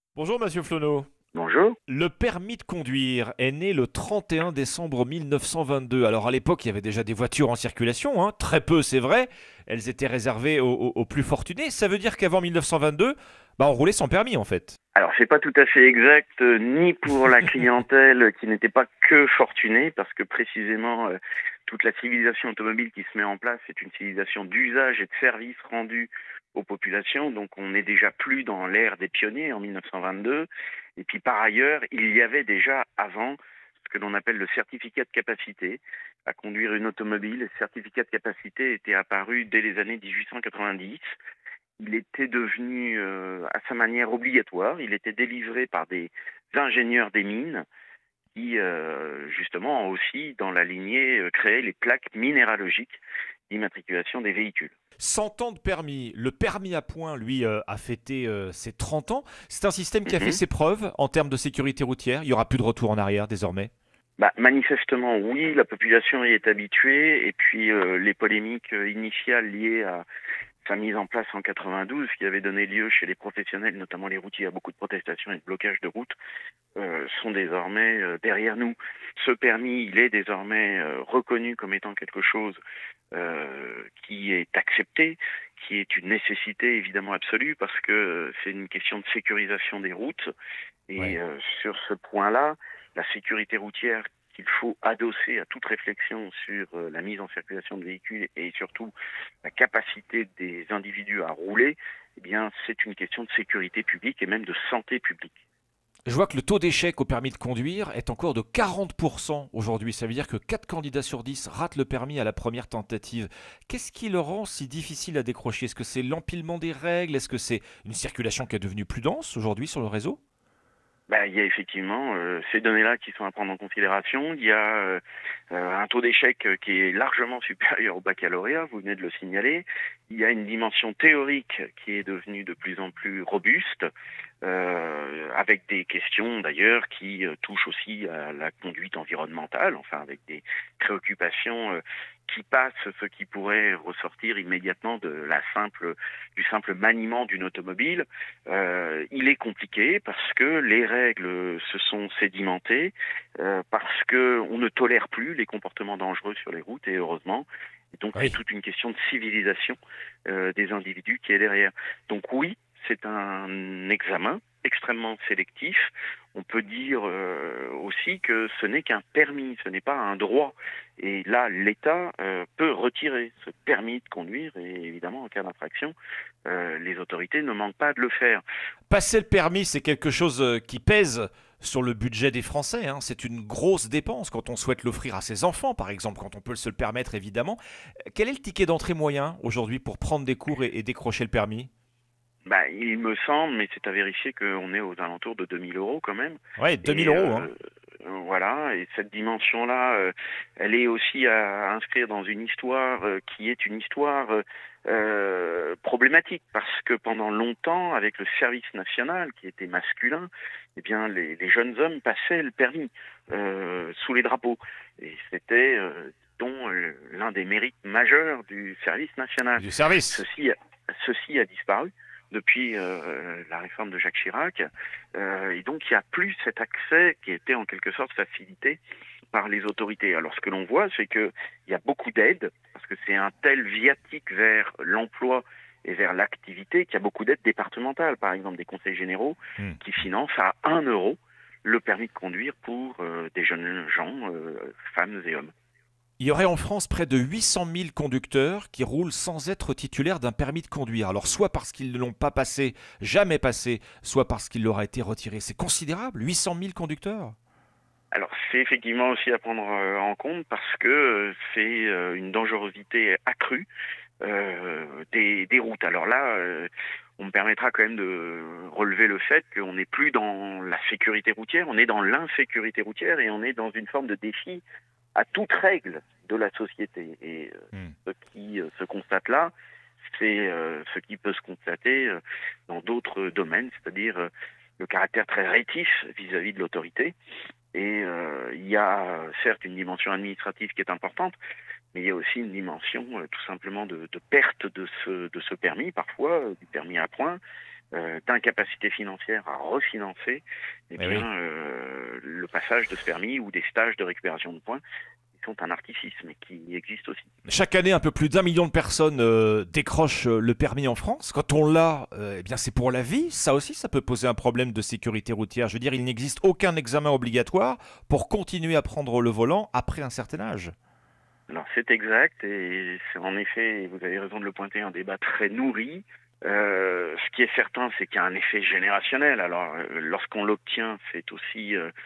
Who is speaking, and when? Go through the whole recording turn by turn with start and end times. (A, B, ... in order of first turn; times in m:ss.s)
0:00.2-0:01.1 A
0:01.3-0:01.7 B
0:01.9-0:14.8 A
0:15.0-0:41.1 B
0:41.8-0:47.6 B
0:48.3-0:54.7 B
0:55.0-1:03.7 A
1:00.1-1:00.4 B
1:04.2-1:10.0 B
1:10.6-1:16.1 B
1:16.8-1:22.6 B
1:23.1-1:30.3 B
1:30.9-1:38.9 B
1:39.4-1:45.4 B
1:46.1-2:00.2 A
2:01.1-2:05.0 B
2:05.5-2:13.9 B
2:14.4-2:55.9 B
2:56.5-2:58.4 B
2:58.9-3:07.6 A
3:08.1-3:11.7 A
3:12.5-3:48.8 B
3:16.6-3:17.5 A
3:39.6-3:40.2 A
3:49.3-4:05.5 B
4:06.2-4:17.3 A
4:18.1-4:23.6 B
4:24.2-4:34.6 B
4:35.2-4:39.5 B
4:40.0-4:44.3 B
4:44.8-4:47.1 B
4:47.7-4:51.3 B
4:51.9-4:57.4 B
4:57.9-5:04.8 B
5:01.0-5:01.2 A
5:05.4-5:07.3 B
5:07.4-5:20.7 A
5:21.5-5:31.9 B